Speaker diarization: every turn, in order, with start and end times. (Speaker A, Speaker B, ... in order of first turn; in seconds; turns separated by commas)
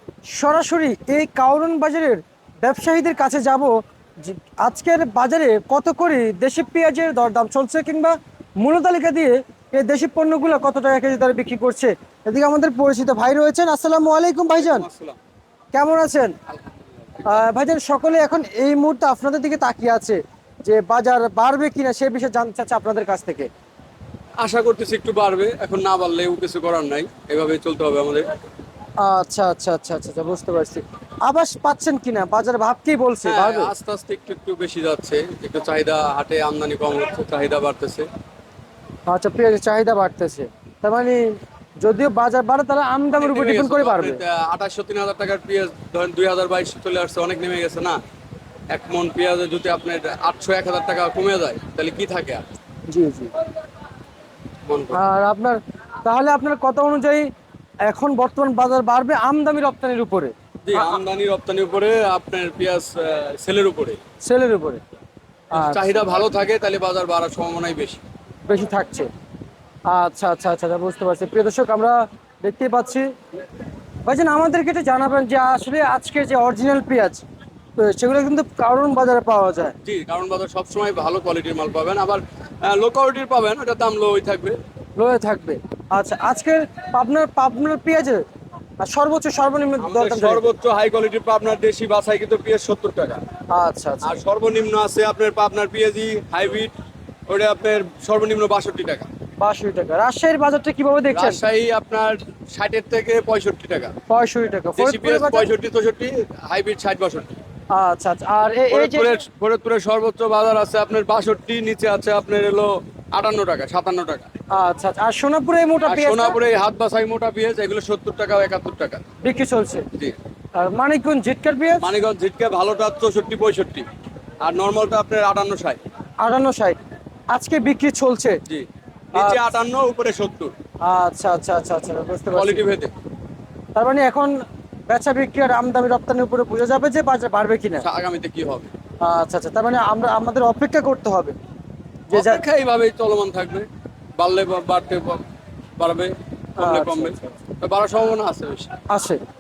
Speaker A: 0.4-14.9, Speaker B: 14.5-15.2, Speaker A: 15.7-16.4, Speaker B: 16.5-17.4, Speaker A: 17.2-23.5, Speaker B: 24.4-28.3, Speaker A: 29.0-33.7, Speaker B: 33.2-38.1, Speaker A: 39.1-44.2, Speaker B: 43.1-48.0, Speaker B: 48.7-52.4, Speaker A: 52.9-53.3, Speaker B: 54.7-55.0, Speaker A: 54.9-57.3, Speaker A: 57.9-61.0, Speaker B: 60.6-64.0, Speaker A: 64.2-64.8, Speaker B: 65.5-68.0, Speaker A: 65.5-65.8, Speaker A: 68.5-69.1, Speaker A: 69.9-73.1, Speaker A: 74.1-77.2, Speaker A: 77.8-79.8, Speaker B: 79.8-84.6, Speaker A: 85.0-88.2, Speaker A: 88.8-90.4, Speaker B: 89.8-93.2, Speaker A: 93.5-94.2, Speaker B: 94.0-96.7, Speaker B: 97.3-99.1, Speaker A: 99.4-101.4, Speaker B: 101.1-104.0, Speaker A: 104.1-105.5, Speaker B: 104.8-107.3, Speaker A: 107.7-109.2, Speaker B: 108.7-114.3, Speaker A: 114.5-116.4, Speaker B: 115.9-119.0, Speaker A: 119.2-119.9, Speaker A: 120.6-121.9, Speaker B: 121.8-123.9, Speaker B: 124.4-125.8, Speaker A: 126.2-126.8, Speaker A: 127.3-128.4, Speaker B: 128.5-130.5, Speaker A: 129.2-129.4, Speaker A: 130.8-132.6, Speaker B: 132.3-132.9, Speaker A: 133.8-134.3, Speaker A: 134.9-137.8, Speaker B: 137.8-138.7, Speaker A: 139.0-141.4, Speaker A: 142.1-142.4, Speaker B: 142.1-145.2, Speaker B: 145.8-148.7, Speaker A: 146.6-147.4, Speaker A: 148.9-149.2